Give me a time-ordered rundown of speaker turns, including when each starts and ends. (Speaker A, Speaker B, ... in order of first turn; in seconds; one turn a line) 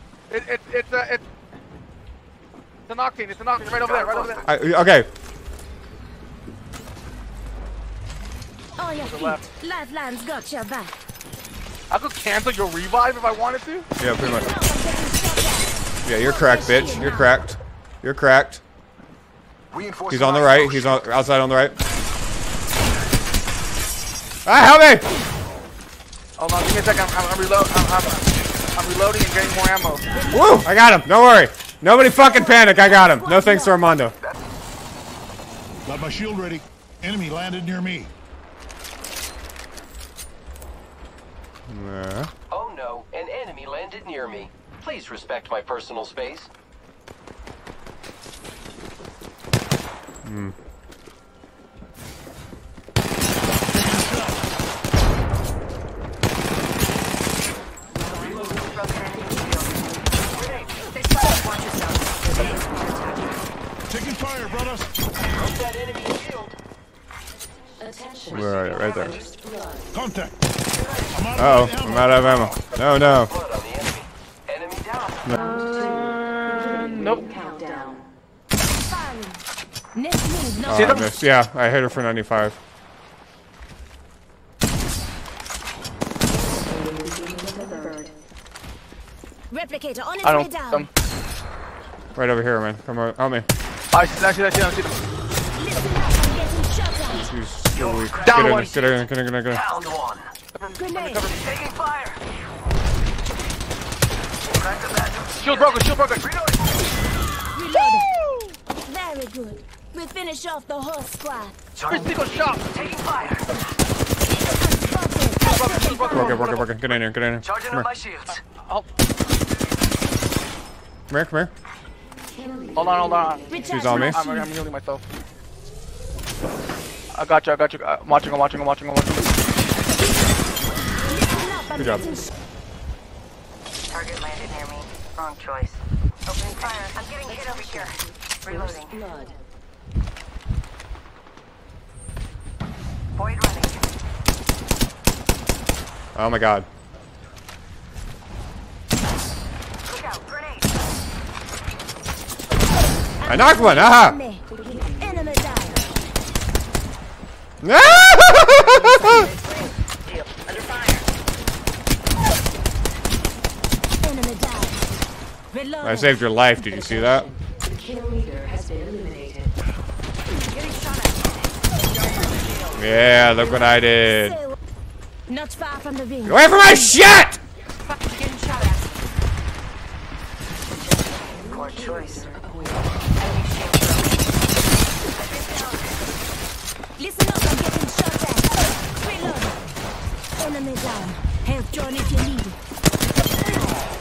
Speaker A: 0.3-1.2
Speaker A: 2.9-4.5
Speaker B: 4.4-5.1
Speaker C: 8.8-11.0
Speaker A: 9.0-9.4
Speaker A: 11.9-13.9
Speaker B: 14.0-14.5
Speaker C: 14.2-17.3
Speaker B: 16.1-18.6
Speaker D: 19.7-21.1
Speaker B: 20.1-21.8
Speaker B: 24.4-25.1
Speaker A: 26.4-30.1
Speaker C: 30.1-30.5
Speaker B: 30.3-34.1
Speaker C: 32.2-33.7
Speaker D: 35.9-38.1
Speaker B: 41.7-42.3
Speaker E: 42.5-46.5
Speaker B: 50.2-50.5
Speaker D: 53.8-54.3
Speaker E: 58.2-59.5
Speaker E: 60.3-61.7
Speaker F: 62.8-63.1
Speaker D: 63.9-64.9
Speaker E: 65.3-66.5
Speaker B: 68.3-69.2
Speaker D: 69.9-70.3
Speaker D: 71.1-72.5
Speaker B: 71.4-73.3
Speaker E: 72.9-75.2
Speaker A: 75.4-77.5
Speaker C: 78.8-79.4
Speaker C: 79.9-81.0
Speaker B: 80.7-82.6
Speaker A: 80.7-81.1
Speaker C: 89.5-90.9
Speaker A: 90.2-90.9
Speaker B: 92.2-93.5
Speaker A: 93.9-95.0
Speaker C: 95.6-97.3
Speaker B: 97.2-99.6
Speaker E: 97.8-98.5
Speaker A: 98.2-99.0
Speaker E: 99.5-100.3
Speaker A: 100.6-101.4
Speaker C: 100.8-101.3
Speaker E: 101.3-102.2
Speaker E: 104.5-106.5
Speaker A: 105.4-106.3
Speaker C: 107.5-108.1
Speaker C: 108.9-111.5
Speaker E: 111.8-112.1
Speaker A: 111.9-113.0
Speaker E: 112.8-113.5
Speaker C: 114.5-116.4
Speaker A: 115.4-116.7
Speaker B: 116.1-117.9
Speaker E: 117.5-118.4
Speaker A: 118.4-118.8
Speaker B: 121.1-121.5
Speaker A: 122.8-125.0
Speaker C: 123.5-124.5
Speaker B: 123.7-124.2
Speaker A: 127.1-129.3
Speaker C: 131.1-132.2
Speaker B: 131.7-132.1
Speaker F: 133.9-135.8
Speaker F: 136.3-137.9
Speaker F: 138.5-138.9
Speaker F: 143.2-143.7
Speaker B: 146.2-146.7
Speaker E: 149.9-150.3
Speaker C: 153.2-155.8
Speaker B: 153.3-154.2
Speaker B: 157.6-159.3
Speaker F: 160.5-160.9
Speaker E: 160.6-160.9
Speaker C: 164.0-164.8
Speaker C: 165.5-166.1
Speaker B: 165.8-167.3
Speaker E: 172.2-172.6
Speaker B: 172.8-174.4
Speaker C: 175.3-176.4
Speaker B: 176.3-177.4
Speaker E: 181.5-182.2
Speaker E: 183.3-183.9
Speaker E: 185.2-185.8
Speaker C: 187.0-189.6
Speaker C: 190.4-192.6